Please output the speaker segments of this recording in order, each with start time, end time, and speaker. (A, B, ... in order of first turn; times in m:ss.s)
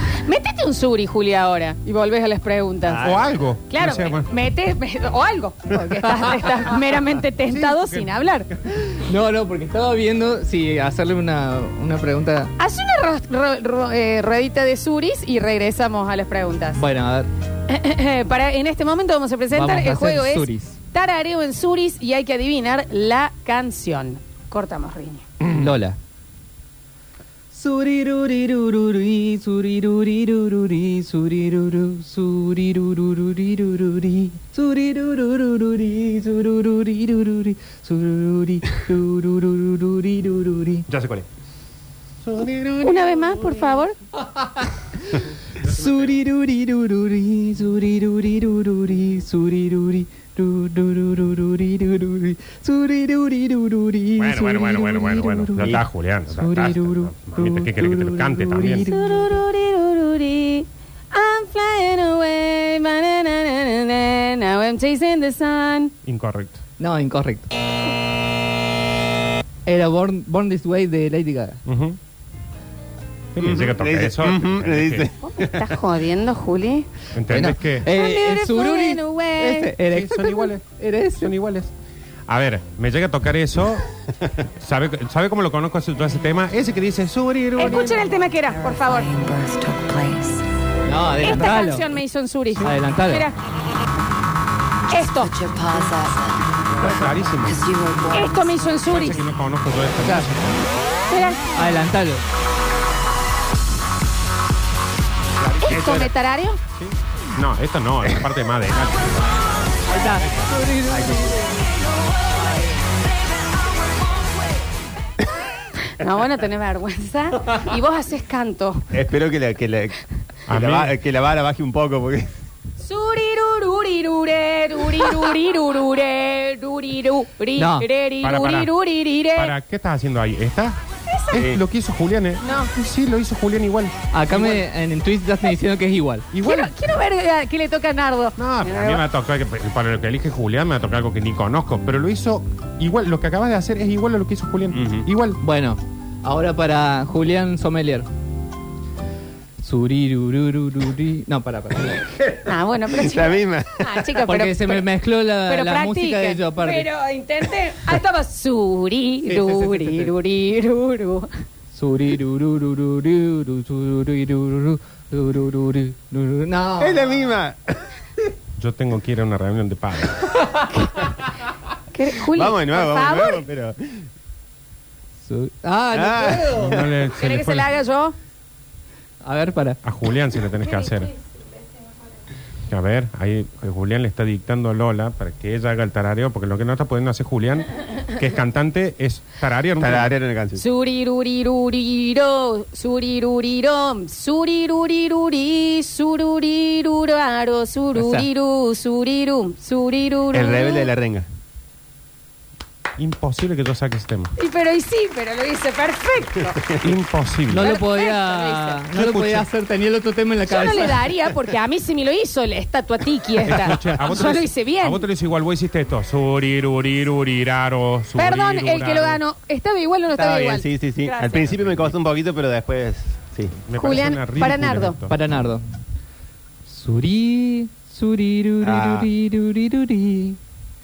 0:00.2-0:03.1 A
0:02.8-0:03.4 B
0:03.0-0:04.3 C
0:03.7-0:08.5 A
0:07.5-0:08.6 C
0:08.7-0:12.5 D
0:12.6-0:16.8 A
0:16.8-0:17.3 D
0:17.7-0:25.2 A
0:19.5-0:20.8 D
0:25.4-0:25.7 C
0:25.5-0:26.0 D
0:27.5-0:40.9 D
0:40.9-0:41.3 C
0:42.2-0:43.7 C
0:42.8-0:43.9 A
0:44.4-0:59.3 D
0:45.6-0:46.1 C
0:54.2-0:58.9 C
0:55.6-0:55.9 B
0:58.8-1:05.9 A
1:06.0-1:06.6 C
1:06.8-1:07.5 D
1:09.6-1:11.6 D
1:11.6-1:12.0 C
1:13.3-1:15.1 C
1:13.4-1:15.7 B
1:15.3-1:16.9 A
1:17.1-1:17.9 C
1:17.3-1:21.3 D
1:17.8-1:19.8 A
1:19.8-1:20.6 C
1:21.2-1:21.7 C
1:22.3-1:28.1 C
1:27.6-1:29.7 A
1:29.2-1:30.4 E
1:30.9-1:31.9 D
1:31.2-1:33.4 A
1:32.6-1:33.3 D
1:34.9-1:36.1 A
1:35.4-1:36.4 E
1:36.8-1:37.7 C
1:37.7-1:38.2 E
1:38.1-1:39.2 A
1:38.9-1:40.7 C
1:40.0-1:40.3 D
1:41.1-1:41.5 A
1:41.5-1:42.2 D
1:45.3-1:46.1 C
1:45.6-1:46.6 A
1:46.7-1:49.5 C
1:49.9-1:51.5 D
1:50.1-1:50.5 C
1:50.9-1:51.4 B
1:55.8-1:58.9 A
1:58.9-2:02.4 B
2:00.5-2:00.9 C
2:02.8-2:09.6 A
2:07.6-2:07.9 D
2:08.2-2:08.7 C
2:09.4-2:10.8 C
2:11.1-2:11.5 A
2:11.3-2:14.6 C
2:11.3-2:11.6 B
2:12.4-2:12.7 A
2:14.1-2:16.3 D
2:16.3-2:16.7 C
2:16.4-2:19.0 A
2:18.4-2:25.4 C
2:24.7-2:25.0 B
2:25.4-2:28.1 D
2:29.6-2:32.1 D
2:32.4-2:41.3 A
2:32.9-2:34.1 B
2:34.2-2:36.9 D
2:39.2-2:40.1 D
2:41.8-2:47.3 D
2:46.8-2:47.9 B
2:48.6-2:50.7 C
2:51.9-2:53.4 A
2:52.3-2:54.0 B
2:55.2-2:56.8 D
2:55.9-2:56.9 B
2:56.6-2:57.7 C
2:57.1-2:58.1 A
2:59.2-2:59.8 D
2:59.8-3:01.1 C
3:02.7-3:10.1 C
3:09.8-3:10.6 B
3:10.6-3:20.9 A
3:17.9-3:18.3 D
3:20.3-3:21.3 B
3:23.0-3:24.3 C
3:24.4-3:26.6 A
3:26.8-3:27.7 C
3:27.5-3:31.0 D
3:27.6-3:28.8 A
3:28.9-3:29.4 C
3:30.4-3:35.0 A
3:33.4-3:39.2 C
3:38.2-3:41.5 A
3:40.1-3:43.6 B
3:43.7-3:45.1 C
3:43.7-3:45.0 A
3:45.1-3:45.6 D
3:46.6-3:50.4 D
3:48.6-3:49.1 B